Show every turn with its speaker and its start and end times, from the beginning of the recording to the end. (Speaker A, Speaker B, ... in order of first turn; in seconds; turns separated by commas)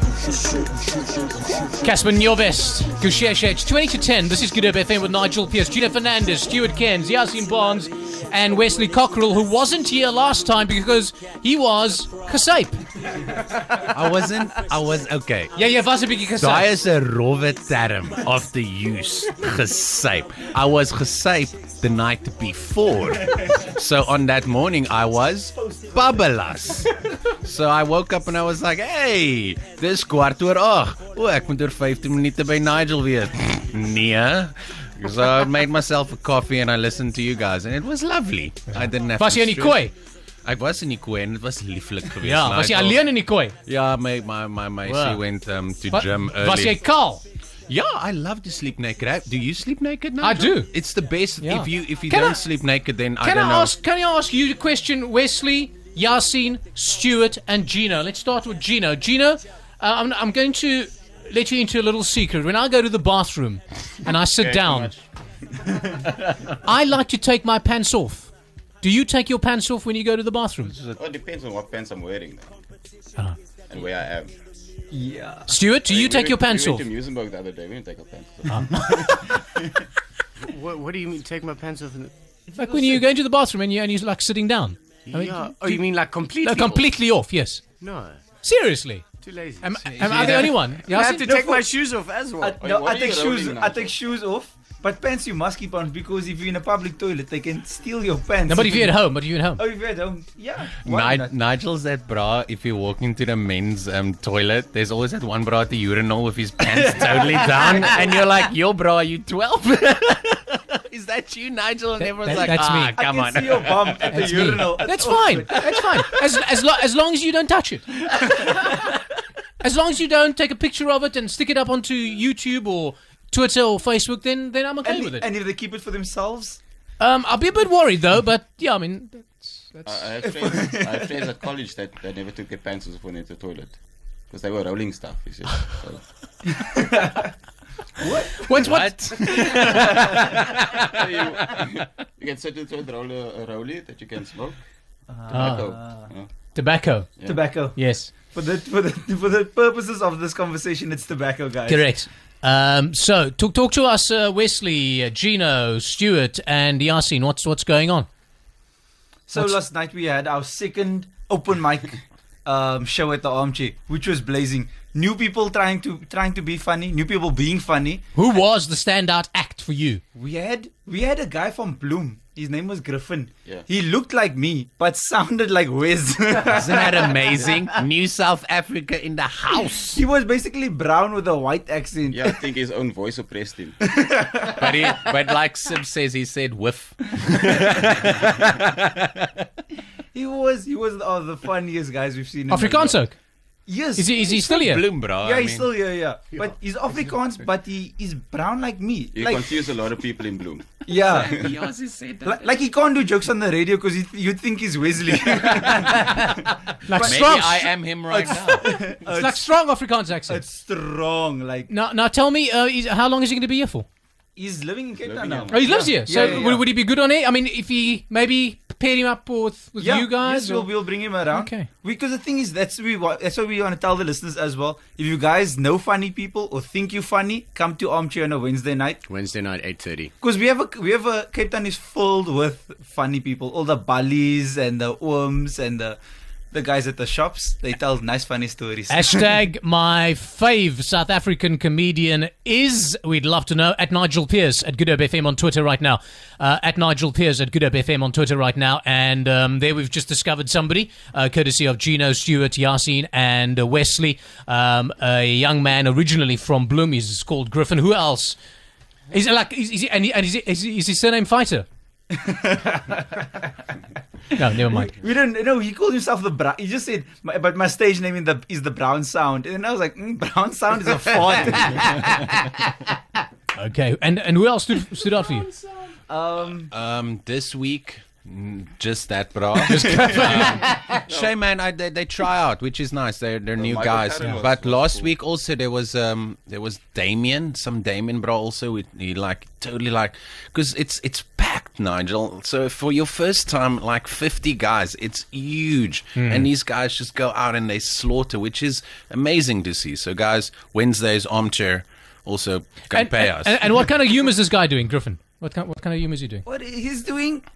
Speaker A: 1.8-12.8, Speaker B: 13.9-15.5, Speaker A: 15.5-16.8, Speaker B: 16.4-26.9, Speaker B: 27.4-39.9, Speaker A: 38.7-39.9, Speaker B: 40.4-43.0, Speaker A: 42.2-43.6, Speaker B: 43.6-46.8, Speaker A: 44.8-45.2, Speaker A: 45.9-47.2, Speaker B: 47.7-53.8, Speaker A: 50.2-50.7, Speaker A: 51.4-52.4, Speaker A: 53.2-65.0, Speaker C: 64.3-65.0, Speaker A: 66.6-68.3, Speaker A: 68.8-70.7, Speaker B: 70.6-71.0, Speaker C: 71.0-72.5, Speaker C: 73.7-74.3, Speaker D: 74.9-75.5, Speaker A: 75.5-76.9, Speaker C: 75.8-79.3, Speaker A: 78.5-78.9, Speaker E: 80.4-82.1, Speaker D: 82.5-83.0, Speaker A: 82.5-85.9, Speaker E: 85.1-86.9, Speaker A: 86.4-87.6, Speaker E: 87.8-88.2, Speaker A: 88.4-89.0, Speaker E: 89.2-92.6, Speaker A: 89.6-91.3, Speaker B: 89.8-90.7, Speaker D: 91.0-91.7, Speaker D: 92.4-99.0, Speaker C: 92.6-93.9, Speaker A: 98.5-99.6, Speaker D: 99.6-101.3, Speaker B: 100.8-114.6, Speaker D: 106.9-108.0, Speaker A: 112.2-113.0, Speaker D: 112.3-115.8, Speaker A: 114.1-118.9, Speaker D: 118.1-118.7, Speaker A: 119.6-125.3, Speaker D: 124.8-126.6, Speaker A: 127.0-130.0, Speaker C: 129.9-133.8, Speaker D: 130.2-131.1, Speaker C: 134.3-136.0, Speaker D: 136.6-137.3, Speaker D: 138.0-138.6, Speaker A: 138.4-140.0, Speaker B: 138.6-141.0, Speaker D: 139.6-140.2, Speaker C: 140.7-144.6, Speaker D: 145.1-146.1, Speaker C: 145.3-146.3, Speaker A: 145.3-145.7, Speaker A: 146.6-148.1, Speaker D: 147.2-147.8, Speaker D: 148.3-151.9, Speaker A: 151.7-158.1, Speaker D: 159.3-168.0, Speaker A: 168.2-170.0, Speaker D: 170.2-177.2, Speaker B: 176.5-180.0, Speaker D: 179.9-182.5, Speaker C: 182.1-183.8, Speaker D: 183.8-185.0, Speaker B: 184.5-188.9, Speaker D: 190.1-193.0, Speaker A: 192.5-193.2, Speaker D: 193.7-194.3, Speaker A: 194.0-194.9, Speaker B: 194.2-195.7, Speaker D: 195.2-199.7, Speaker C: 199.1-201.5, Speaker D: 200.9-201.3, Speaker B: 200.9-202.6, Speaker D: 202.2-207.5, Speaker B: 205.6-206.2, Speaker A: 206.9-207.7, Speaker B: 207.0-208.7, Speaker D: 208.1-209.4, Speaker A: 208.7-210.4, Speaker D: 210.3-211.7, Speaker A: 211.7-213.9, Speaker D: 214.4-216.6, Speaker C: 215.0-216.6, Speaker A: 215.5-220.7, Speaker D: 219.8-229.0, Speaker A: 221.2-221.7, Speaker E: 229.1-230.1, Speaker D: 230.2-236.0, Speaker D: 236.5-239.4, Speaker A: 238.9-258.4, Speaker A: 259.1-261.7, Speaker D: 262.1-263.4, Speaker A: 264.3-265.0, Speaker D: 264.7-272.6, Speaker A: 273.6-275.5, Speaker D: 276.1-276.7, Speaker B: 276.7-303.7, Speaker A: 279.7-280.6, Speaker C: 280.4-281.3, Speaker C: 283.6-285.1, Speaker A: 296.2-296.5, Speaker A: 302.9-306.5, Speaker D: 306.5-307.5